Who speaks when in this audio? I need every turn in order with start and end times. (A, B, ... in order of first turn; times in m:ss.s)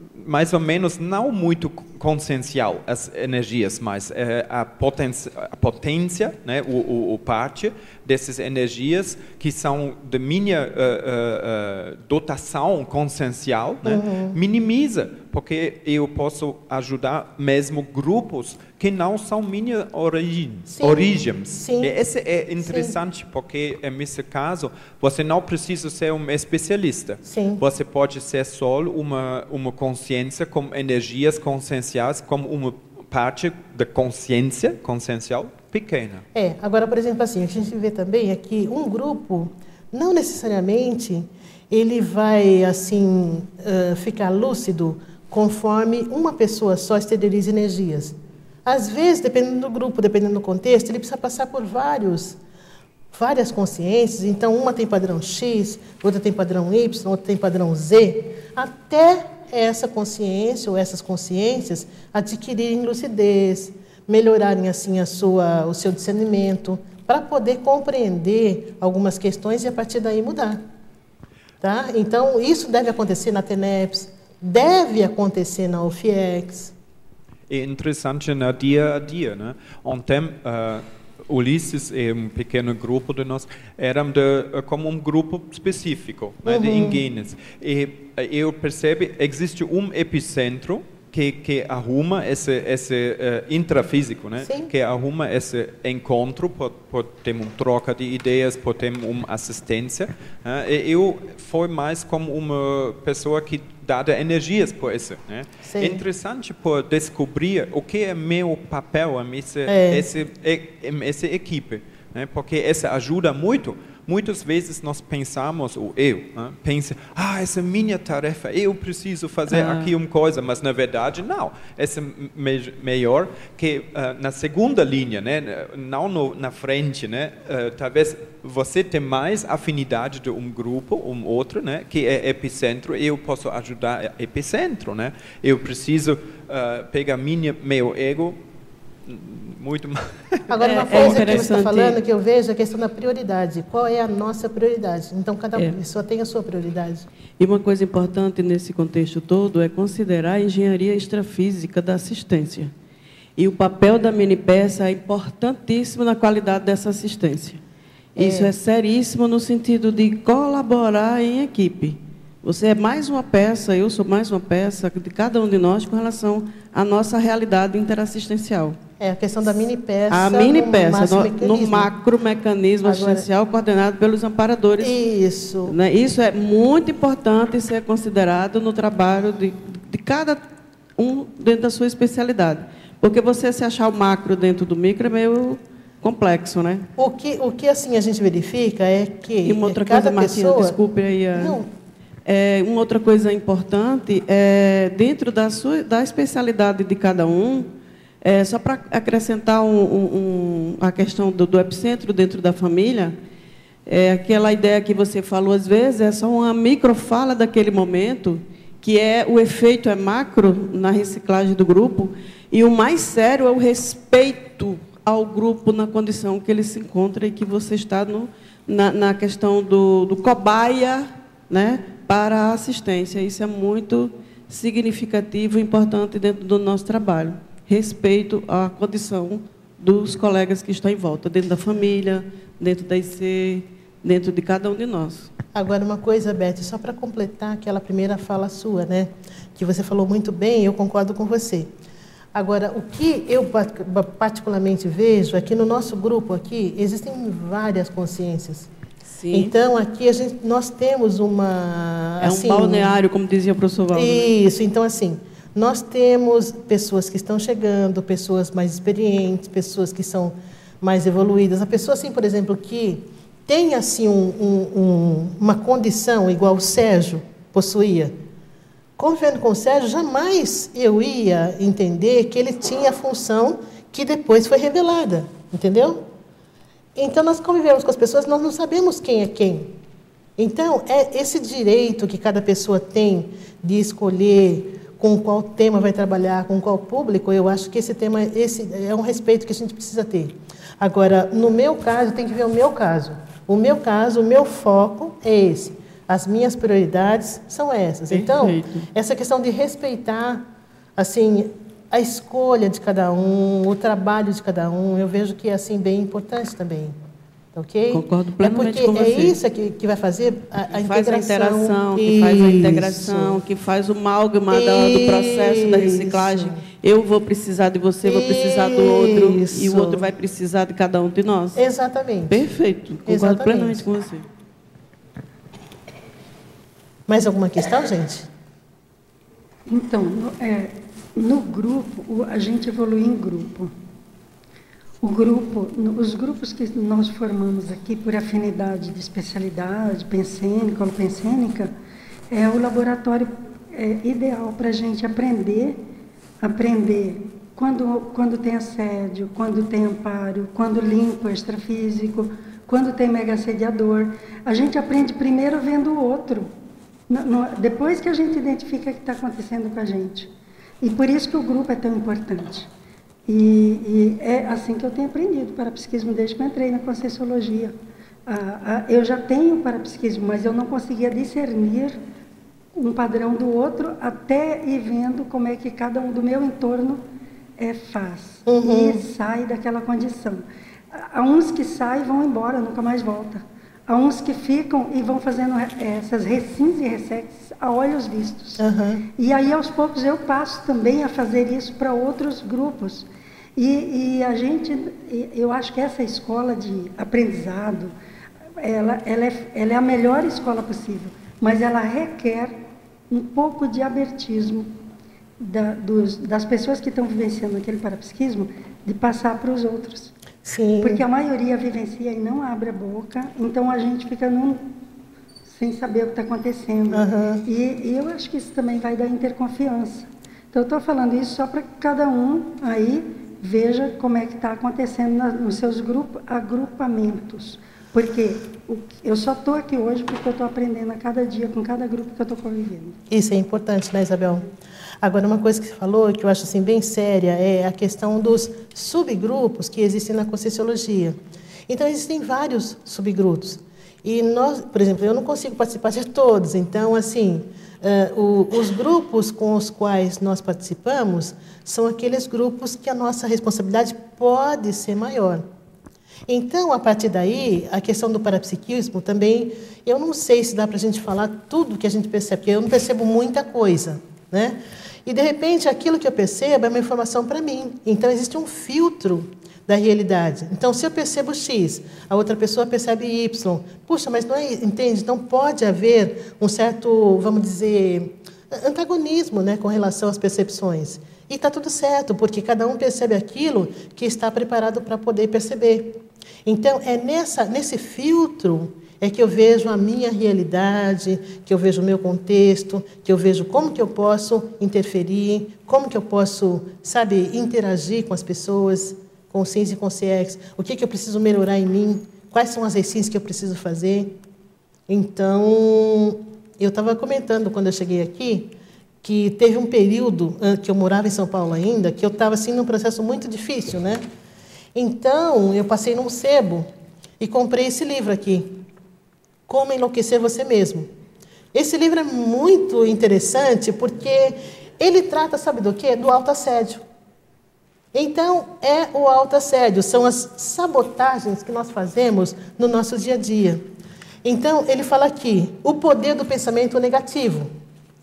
0:00.2-0:36.2 A
0:13.8-0:14.4 B
0:20.7-0:21.9 B
0:22.6-0:23.0 B
0:27.2-0:27.6 B
0:36.3-0:48.2 B
0:48.7-0:52.4 B
0:53.1-1:10.6 B
1:11.6-1:16.7 B
1:17.5-2:18.4 A
1:26.5-1:27.0 B
1:34.4-1:34.7 B
1:45.6-1:46.0 B
1:49.7-1:50.1 B
2:19.1-2:21.5 A
2:20.5-2:27.1 B
2:20.6-2:22.0 C
2:27.4-2:32.7 C
2:33.4-2:37.6 C
2:38.2-2:48.8 C
2:38.2-2:38.5 B
2:49.0-2:51.9 B
2:50.1-2:55.0 C
2:52.8-2:53.3 B
2:54.8-2:55.7 B
2:55.7-3:00.4 C
3:01.0-3:06.9 C
3:07.0-3:10.8 B
3:09.4-3:11.6 C
3:11.4-3:11.7 B
3:12.3-3:17.7 C
3:18.2-3:23.2 C
3:23.9-3:55.3 C
3:55.5-4:01.7 B
4:02.4-4:08.7 B
4:09.1-4:09.5 C
4:09.3-4:12.9 B
4:12.2-4:14.3 C
4:13.9-4:28.1 B
4:29.0-4:36.1 B
4:37.0-4:39.8 B
4:40.4-5:00.4 B
4:58.1-4:58.9 C
5:01.0-5:07.0 B
5:07.6-5:13.4 B
5:07.9-5:09.4 C
5:10.7-5:21.6 C
5:14.5-5:16.6 B
5:18.0-5:20.0 B
5:21.6-5:22.4 B
5:22.3-5:24.3 C
5:23.1-5:23.9 B
5:27.1-5:28.3 B
5:29.7-5:33.7 D
5:35.0-5:41.7 D
5:42.3-5:45.8 D
5:46.4-5:56.5 D
5:57.1-6:02.7 D
6:03.3-6:07.7 D
6:08.3-6:12.0 D
6:12.8-6:17.0 D
6:17.6-6:20.4 D
6:18.5-6:19.0 B
6:21.0-6:28.6 D
6:28.6-6:29.0 B
6:29.2-6:37.9 D
6:38.6-6:42.5 D
6:43.1-6:44.8 D
6:45.4-6:50.1 D
6:50.4-6:51.0 B
6:50.8-6:54.7 D
6:55.5-7:13.0 D
6:56.9-6:57.4 B
7:13.1-7:14.4 B
7:15.0-7:21.2 B
7:21.7-7:35.4 B
7:36.3-8:24.2 B
8:24.9-8:34.0 B
8:34.8-8:36.7 B
8:37.2-8:38.7 B
8:39.5-8:40.9 B
8:41.5-8:46.8 B
8:47.9-8:53.6 B
8:54.2-8:57.5 B